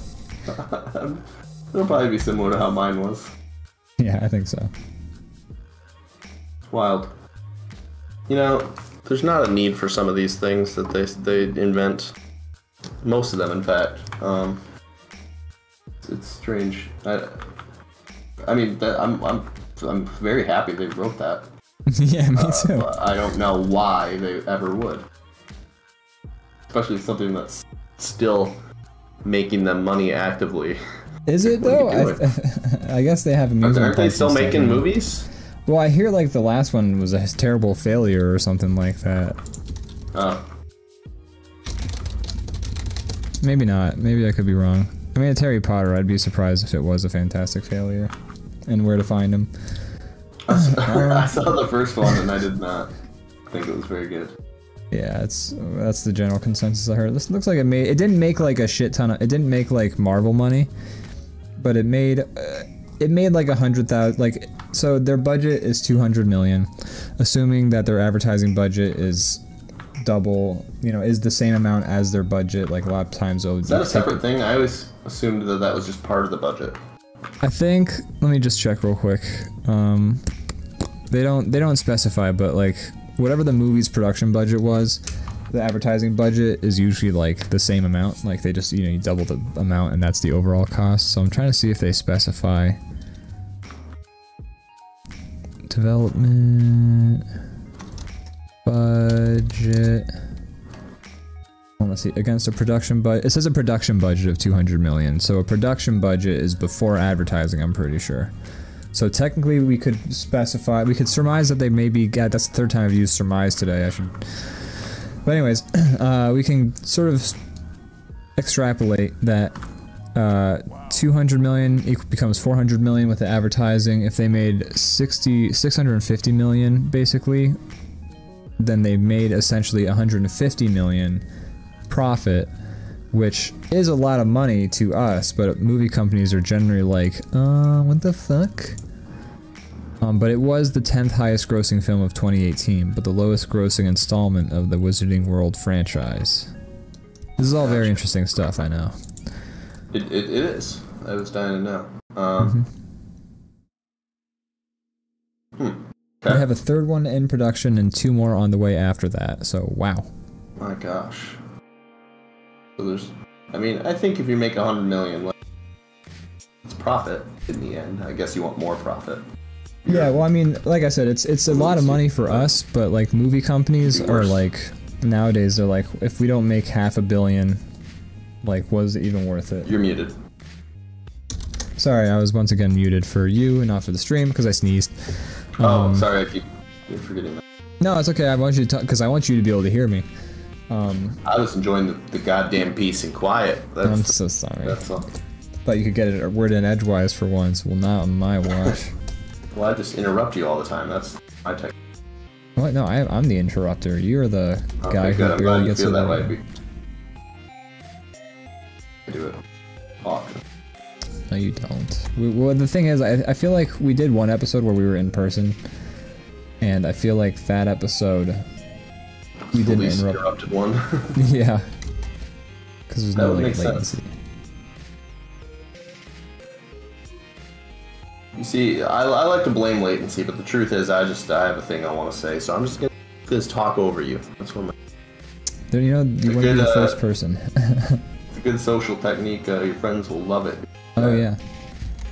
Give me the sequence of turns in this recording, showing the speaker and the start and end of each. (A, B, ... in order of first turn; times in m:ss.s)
0:00.4-0:03.3 A
0:04.0-0:04.7 B
0:06.6-0:07.1 A
0:08.3-0:12.2 A
0:13.0-0:14.6 A
0:16.0-0:17.4 A
0:18.4-0:21.5 A
0:21.9-0:22.9 B
0:22.4-0:25.0 A
0:26.7-0:28.6 A
0:29.2-0:30.8 A
0:31.3-0:34.9 B
0:31.4-0:32.2 A
0:33.6-0:35.3 A
0:35.7-0:39.4 B
0:40.1-0:40.4 A
0:43.4-0:48.1 B
0:48.7-0:49.5 B
0:50.4-0:52.9 A
0:50.5-0:52.2 B
0:53.5-0:54.4 A
0:54.9-1:00.7 B
1:01.6-1:09.4 B
1:10.0-1:14.2 B
1:13.6-1:16.8 A
1:17.4-1:20.2 B
1:21.1-1:32.8 B
1:35.7-1:37.2 B
1:38.6-1:40.1 B
1:41.8-1:48.3 B
1:48.9-1:57.4 B
1:58.4-1:59.5 B
2:00.1-2:07.6 B
2:08.6-2:11.2 B
2:11.9-2:12.5 B
2:13.1-2:18.8 B
2:20.0-2:26.5 B
2:27.4-2:29.0 B
2:27.6-2:28.0 A
2:29.9-2:32.6 A
2:32.4-2:32.7 B
2:35.6-2:36.4 A
2:36.2-2:40.1 B
2:40.6-2:41.4 A
2:42.8-2:45.4 A
2:46.6-2:49.2 A
2:49.8-2:50.1 A
2:49.8-2:57.6 B
2:51.5-2:52.5 A
2:53.9-2:54.4 A
2:58.4-2:59.7 B
2:59.6-3:00.2 A
3:01.8-3:06.1 B
3:05.6-3:07.4 A
3:07.8-3:10.0 B
3:10.7-3:11.2 B
3:11.2-3:15.1 A
3:13.8-3:14.8 B
3:15.6-3:18.9 B
3:19.5-3:21.7 A
3:22.6-3:26.3 B
3:24.8-3:26.5 A
3:29.1-3:29.4 A
3:30.0-3:30.4 A
3:31.3-3:35.6 B
3:36.6-3:38.4 B
3:39.5-3:41.2 A
3:39.5-3:40.2 B
3:41.1-3:41.7 B
3:42.9-3:44.1 B
3:43.1-3:43.9 A
3:48.4-3:54.7 A
3:55.7-3:58.0 B
3:56.2-3:57.0 A
3:58.3-4:01.2 A
4:01.0-4:01.4 B